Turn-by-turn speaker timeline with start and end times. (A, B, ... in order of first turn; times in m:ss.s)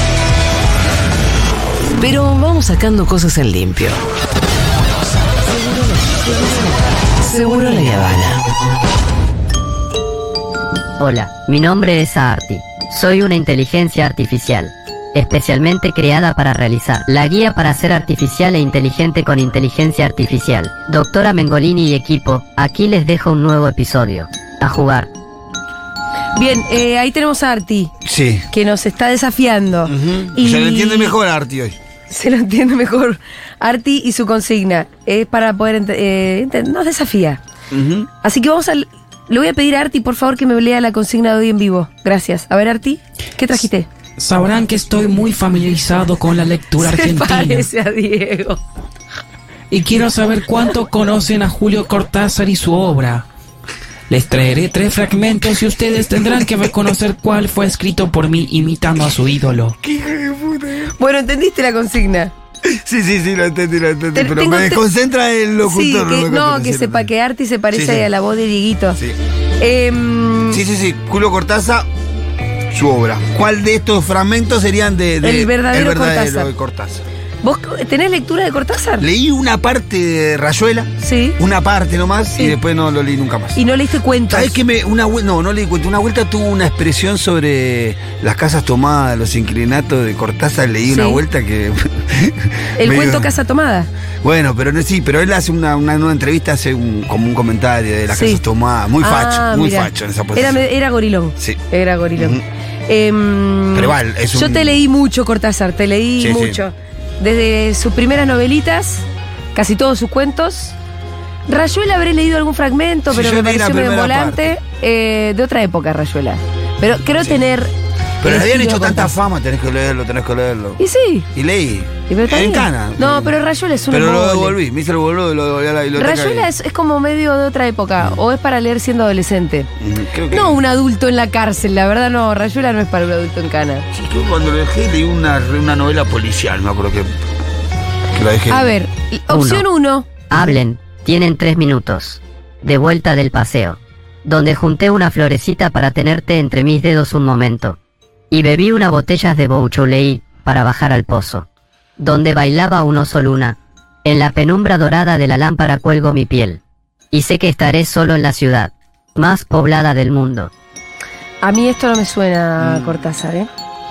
0:02.0-0:04.0 A
0:05.5-0:08.4 A
0:11.0-0:25.1 B
0:26.4-0:27.9 C
0:28.0-0:28.4 D
0:28.5-0:31.2 C
0:29.9-0:31.8 D
0:32.1-0:37.4 C
0:37.7-0:38.1 D
0:38.2-0:43.9 C
0:44.2-0:47.7 E
0:46.8-0:48.6 C
0:49.7-0:53.3 E
0:54.1-0:59.8 E
0:59.8-1:00.9 D
1:01.0-1:02.3 C
1:02.7-1:07.1 D
1:04.2-1:04.8 C
1:05.6-1:09.0 C
1:07.7-1:08.1 D
1:09.6-1:10.6 C
1:10.5-1:11.9 D
1:12.7-1:17.0 D
1:15.2-1:16.5 C
1:17.4-1:19.1 C
1:19.0-1:23.6 D
1:21.0-1:21.4 C
1:23.6-1:24.6 C
1:24.3-1:33.3 D
1:30.9-1:31.2 C
1:32.8-1:33.9 C
1:34.2-1:40.6 D
1:38.1-1:38.4 C
1:39.0-1:50.8 C
1:42.2-1:42.4 D
1:43.7-1:44.8 D
1:46.2-1:46.6 D
1:51.5-1:59.1 C
1:53.1-1:54.5 D
1:58.2-2:00.8 D
2:00.8-2:01.3 C
2:01.3-2:03.4 D
2:02.1-2:04.6 C
2:03.9-2:06.5 D
2:06.0-2:09.7 C
2:09.8-2:10.6 D
2:10.3-2:13.9 C
2:13.9-2:17.1 D
2:18.1-2:18.7 D
2:18.5-2:20.1 C
2:19.3-2:19.6 B
2:20.3-2:27.8 B
2:28.3-2:31.5 B
2:32.0-2:36.6 B
2:37.1-2:40.5 B
2:41.4-2:43.5 C
2:42.6-2:42.9 D